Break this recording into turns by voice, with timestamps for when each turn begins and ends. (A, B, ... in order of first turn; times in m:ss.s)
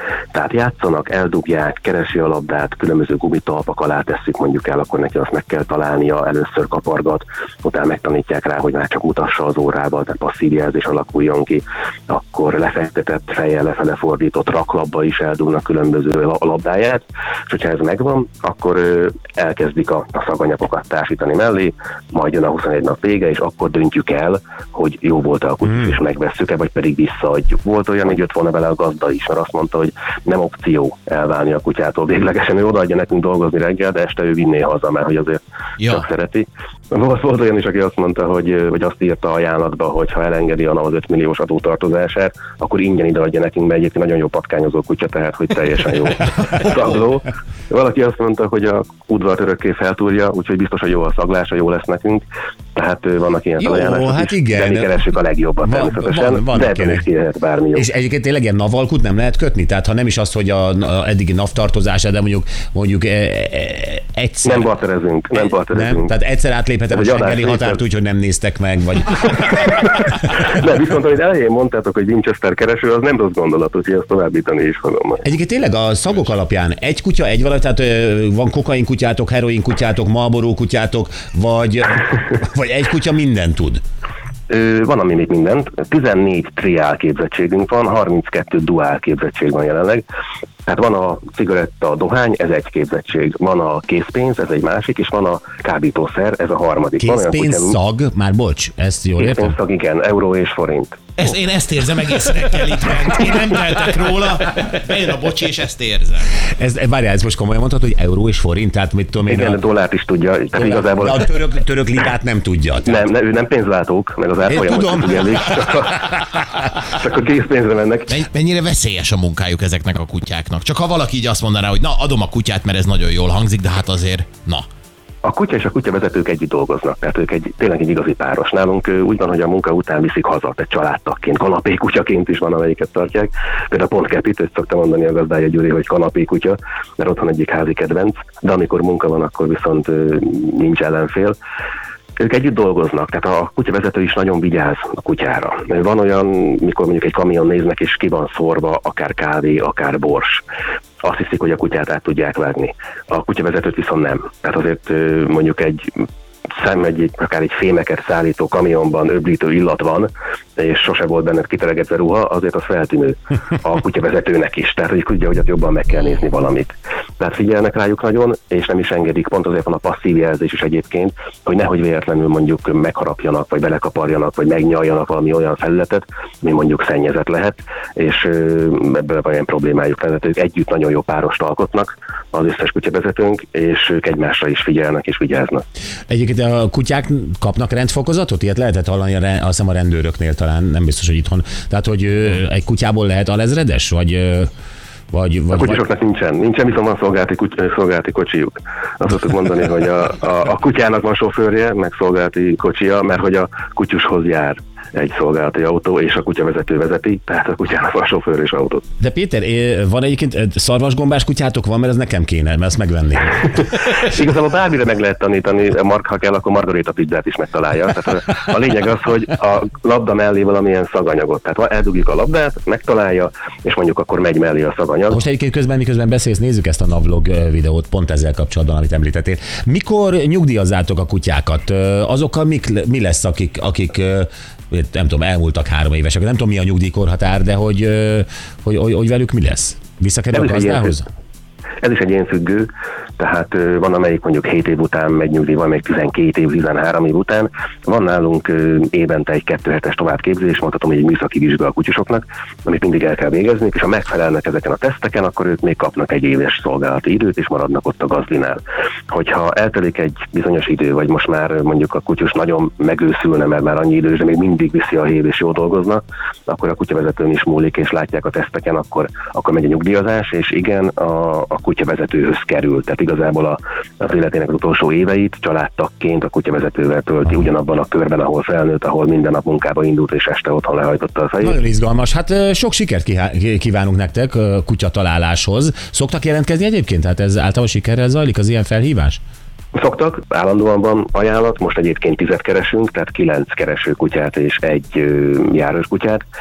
0:00.3-0:57.9 A
0:35.8-0:36.1 B
0:53.6-0:55.0 C
0:55.6-0:57.0 C
0:57.8-1:04.7 C
1:04.4-1:06.2 A
1:05.4-1:10.3 C
1:06.9-1:07.8 A
1:10.0-1:15.3 A
1:15.2-1:23.8 C
1:24.5-1:30.0 A
1:30.7-1:37.8 A
1:37.0-1:39.6 C
1:39.2-1:41.1 A
1:41.2-1:46.3 B
1:46.5-1:49.6 C
1:49.3-1:51.3 A
1:50.5-1:53.0 C
1:52.9-1:58.2 A
1:54.5-1:56.1 C
1:58.1-2:04.7 B
2:05.2-2:21.4 A
2:22.2-2:30.4 A
2:31.0-2:35.9 A
2:36.6-3:05.6 A
3:06.1-3:14.5 C
3:15.1-3:15.9 C
3:15.5-3:28.8 A
3:29.0-3:33.5 C
3:33.6-3:45.2 A
3:45.1-4:01.1 C
4:00.3-4:00.9 A
4:01.8-4:41.6 A
4:41.4-4:49.2 C
4:49.8-4:56.2 A